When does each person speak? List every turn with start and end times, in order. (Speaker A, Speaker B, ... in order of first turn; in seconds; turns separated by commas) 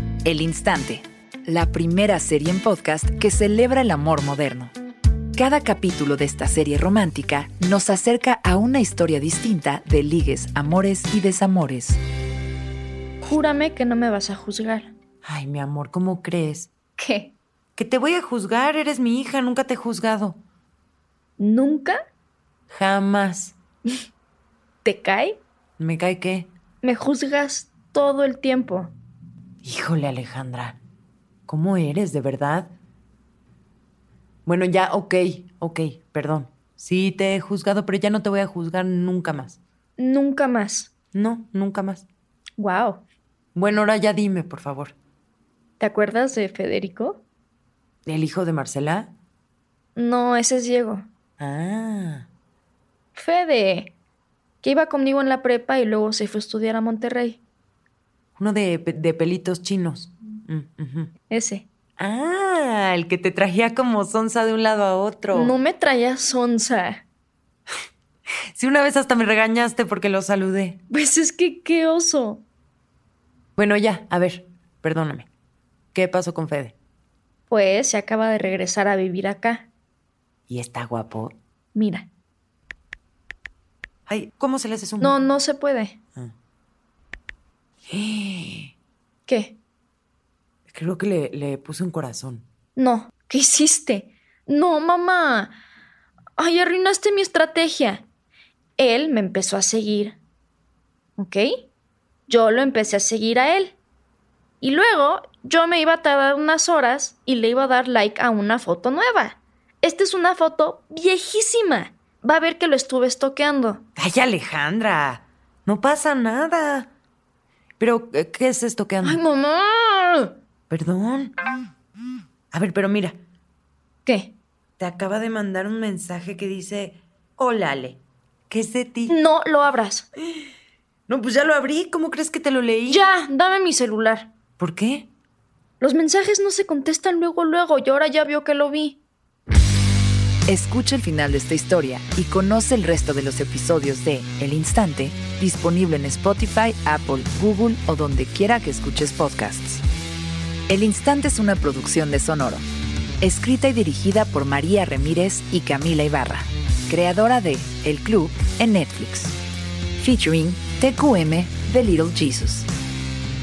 Speaker A: 0.2-4.7, Speaker A: 5.3-12.0, Speaker B: 13.2-14.9, Speaker C: 15.2-16.7, Speaker B: 17.0-17.3, Speaker C: 17.8-20.4, Speaker B: 21.4-22.0, Speaker C: 22.7-23.6, Speaker B: 24.8-25.4, Speaker C: 25.8-26.5, Speaker B: 26.8-28.9, Speaker C: 29.6-30.8, Speaker C: 31.5-32.7, Speaker C: 34.5-39.6, Speaker B: 40.0-40.9, Speaker C: 41.1-42.1, Speaker B: 42.6-43.0, Speaker C: 43.5-45.0, Speaker B: 45.8-47.2, Speaker C: 48.1-49.1, Speaker B: 50.0-51.1, Speaker C: 51.4-52.3, Speaker B: 53.1-53.9, Speaker B: 54.6-57.4, Speaker C: 58.4-61.1, Speaker B: 61.3-61.6, Speaker C: 62.0-65.6, Speaker B: 65.3-67.0, Speaker C: 68.5-70.8, Speaker B: 70.9-72.4, Speaker C: 73.6-75.3, Speaker C: 75.9-76.8, Speaker B: 77.5-79.7, Speaker C: 80.5-81.4, Speaker B: 81.8-82.1, Speaker C: 84.1-85.2, Speaker B: 85.0-86.0, Speaker C: 87.9-88.7, Speaker B: 89.3-89.6, Speaker C: 90.7-92.5, Speaker B: 92.8-95.6, Speaker B: 96.4-98.0, Speaker B: 98.8-100.2, Speaker B: 101.2-101.6, Speaker B: 102.3-103.8, Speaker B: 104.6-113.8, Speaker C: 114.0-116.9, Speaker C: 117.8-119.2, Speaker B: 119.0-120.3, Speaker C: 120.7-121.3, Speaker C: 122.5-123.2, Speaker B: 124.1-124.3, Speaker C: 124.8-129.2, Speaker B: 129.1-130.1, Speaker C: 131.1-133.0, Speaker B: 132.9-134.3, Speaker C: 134.6-135.1, Speaker B: 135.8-139.0, Speaker A: 140.5-149.8, Speaker A: 150.7-152.6, Speaker A: 153.2-159.3, Speaker A: 160.0-162.7